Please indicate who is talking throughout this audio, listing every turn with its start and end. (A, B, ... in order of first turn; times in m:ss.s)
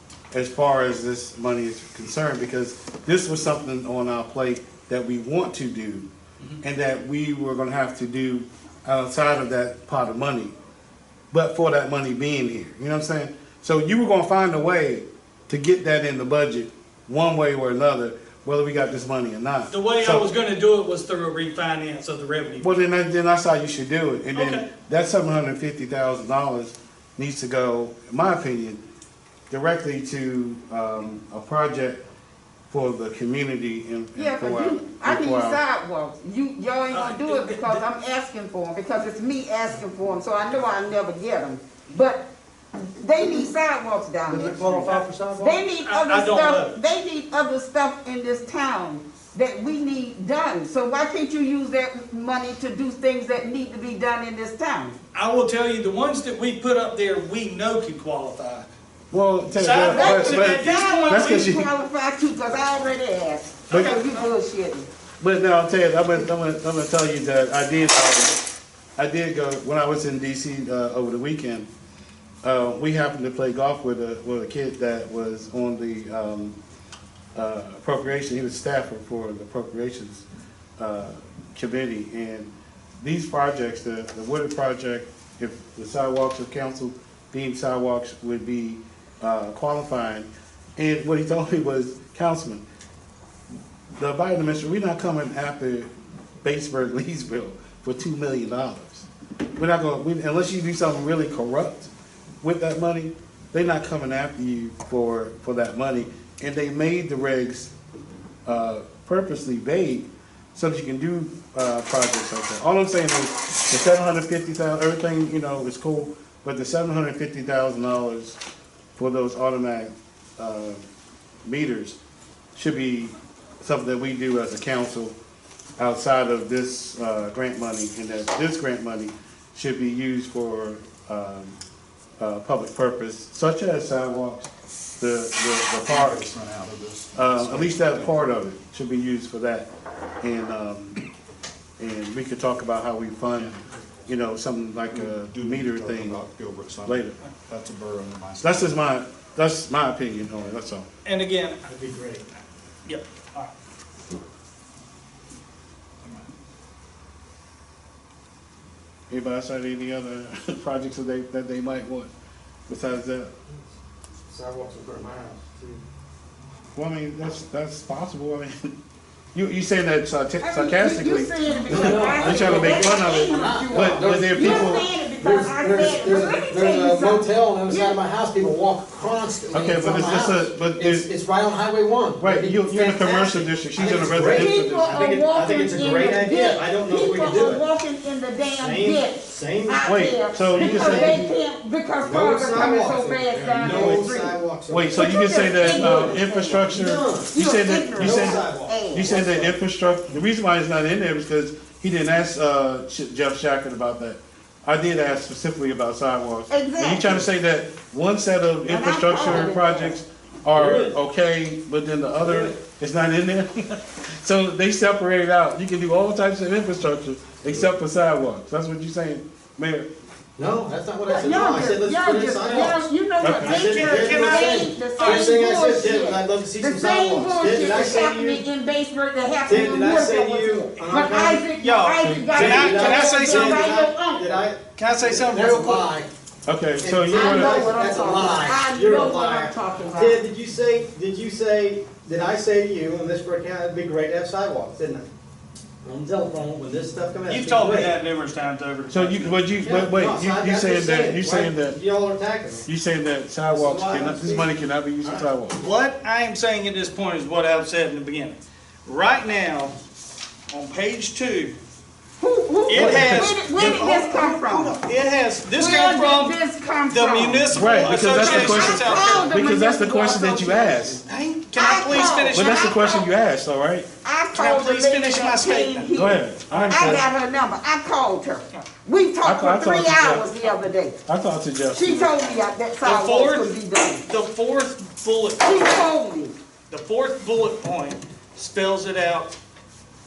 0:00.3-0:06.1 A
0:06.6-0:10.5 A
0:11.3-0:20.2 A
0:19.7-0:22.9 B
0:22.6-0:28.8 A
0:24.3-0:24.7 B
0:29.5-0:32.0 A
0:32.7-0:35.6 A
0:34.2-0:42.3 C
0:36.9-0:37.8 B
0:43.0-0:55.0 C
0:44.3-0:45.6 D
0:45.8-0:46.8 B
0:55.1-0:58.6 B
0:59.1-1:01.7 A
0:59.5-1:01.5 B
0:59.9-1:04.9 C
1:03.7-1:04.3 B
1:05.2-1:08.4 A
1:09.0-1:11.7 A
1:12.4-1:16.6 A
1:17.3-1:20.2 A
1:20.8-1:32.6 A
1:34.0-1:35.9 A
1:36.4-1:41.9 A
1:42.4-1:47.7 A
1:48.4-1:58.4 A
1:59.0-2:00.8 A
2:01.4-2:02.0 A
2:02.5-2:05.2 A
2:05.8-2:11.6 A
2:12.2-2:16.3 A
2:15.8-2:18.4 E
2:17.1-2:19.7 A
2:20.2-2:21.0 A
2:21.8-2:26.2 A
2:24.9-2:28.8 E
2:26.8-2:27.1 A
2:28.4-2:30.9 A
2:31.0-2:31.6 B
2:31.7-2:32.2 D
2:32.8-2:33.5 B
2:39.1-2:42.1 A
2:42.7-2:43.3 A
2:44.3-2:45.8 D
2:46.8-2:48.7 A
2:49.3-2:54.9 A
2:50.4-2:58.0 C
2:51.7-3:07.6 D
2:59.5-3:01.1 A
3:02.2-3:05.0 A
3:04.2-3:14.4 C
3:08.6-3:09.9 D
3:09.8-3:11.3 A
3:10.5-3:11.2 D
3:12.0-3:17.3 D
3:13.6-3:14.1 A
3:14.7-3:39.9 A
3:14.9-3:16.8 C
3:17.3-3:19.5 C
3:18.0-3:19.6 D
3:26.5-3:27.3 C
3:28.7-3:30.0 C
3:29.2-3:29.5 D
3:30.6-3:31.0 D
3:32.2-3:32.5 D
3:40.4-3:42.9 D
3:41.1-3:54.4 C
3:43.2-3:43.6 A
3:43.4-3:45.3 B
3:43.4-3:48.4 D
3:49.4-3:51.4 D
3:50.8-3:53.7 B
3:52.0-3:52.3 A
3:52.3-3:56.1 D
3:54.8-3:55.9 B
3:56.5-3:57.7 A
3:56.8-4:05.1 D
3:57.1-4:00.2 C
4:05.8-4:08.0 D
4:07.3-4:09.5 B
4:08.9-4:11.8 A
4:09.6-4:12.7 D
4:12.6-4:15.6 A
4:13.5-4:15.2 D
4:15.5-4:19.8 B
4:20.5-4:21.6 B
4:22.2-4:24.8 C
4:22.7-4:29.4 B
4:22.7-4:23.3 A
4:25.6-4:31.0 C
4:27.5-4:31.0 A
4:31.0-4:32.8 B
4:31.5-4:33.1 C
4:32.3-4:33.9 A
4:34.0-4:41.0 C
4:34.3-4:37.0 B
4:35.9-4:37.0 A
4:39.2-4:40.5 A
4:41.0-4:42.2 A
4:41.7-4:44.0 C
4:42.8-4:43.5 B
4:44.0-4:45.8 B
4:45.4-4:46.3 C
4:46.7-4:49.3 B